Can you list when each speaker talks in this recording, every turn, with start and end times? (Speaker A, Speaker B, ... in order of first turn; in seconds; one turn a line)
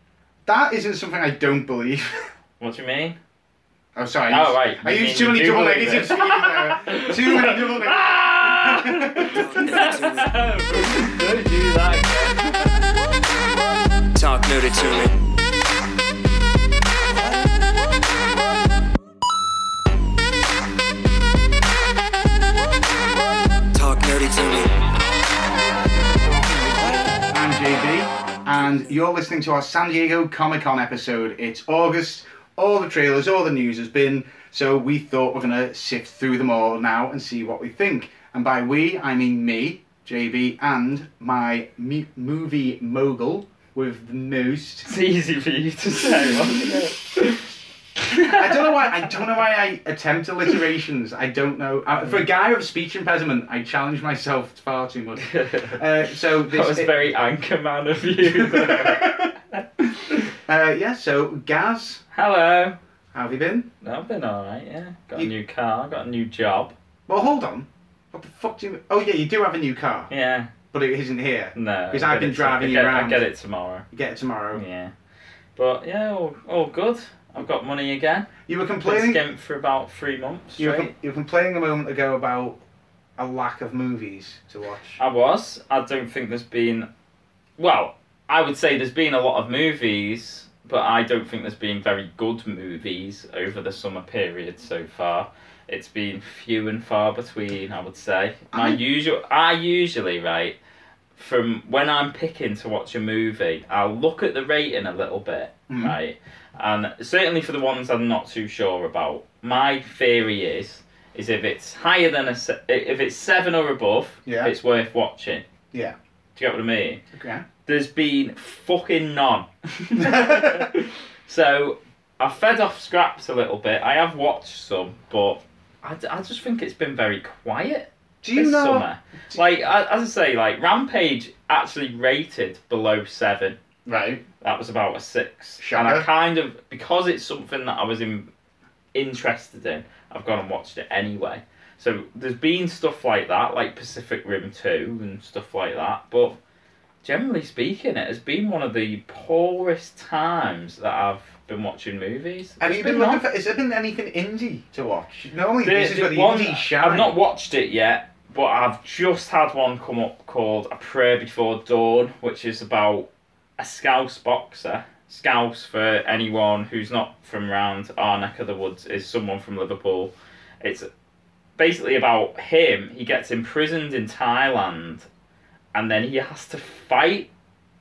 Speaker A: 0.5-2.3
Speaker B: 2.6-3.1
Speaker A: 3.9-9.7
Speaker B: 4.3-12.8
Speaker C: 9.2-10.3
Speaker C: 14.1-15.3
Speaker C: 23.7-24.8
Speaker A: 25.7-44.9
Speaker B: 44.8-49.0
Speaker A: 46.0-46.9
Speaker A: 48.2-57.0
Speaker B: 55.2-55.8
Speaker B: 56.5-60.3
Speaker A: 58.2-59.3
Speaker A: 60.4-62.0
Speaker B: 62.1-62.8
Speaker A: 63.1-63.7
Speaker B: 63.8-66.7
Speaker A: 67.1-70.1
Speaker B: 70.1-70.5
Speaker A: 70.7-73.2
Speaker B: 71.5-73.8
Speaker A: 73.9-74.6
Speaker B: 74.5-74.9
Speaker B: 75.5-78.3
Speaker A: 78.5-79.2
Speaker B: 78.8-80.9
Speaker A: 80.6-82.6
Speaker A: 83.2-85.0
Speaker B: 85.0-86.9
Speaker B: 87.6-100.6
Speaker A: 98.5-98.8
Speaker B: 101.2-115.4
Speaker A: 105.7-105.9
Speaker A: 114.2-114.5
Speaker B: 116.3-117.0
Speaker A: 117.1-117.4
Speaker B: 117.7-133.6
Speaker A: 120.0-120.7
Speaker A: 128.2-129.4
Speaker A: 133.8-134.2
Speaker B: 134.4-138.3
Speaker A: 135.6-136.1
Speaker B: 138.9-146.3
Speaker B: 147.0-153.2
Speaker A: 152.6-157.1
Speaker B: 155.6-170.9
Speaker B: 171.6-175.1
Speaker B: 175.7-177.3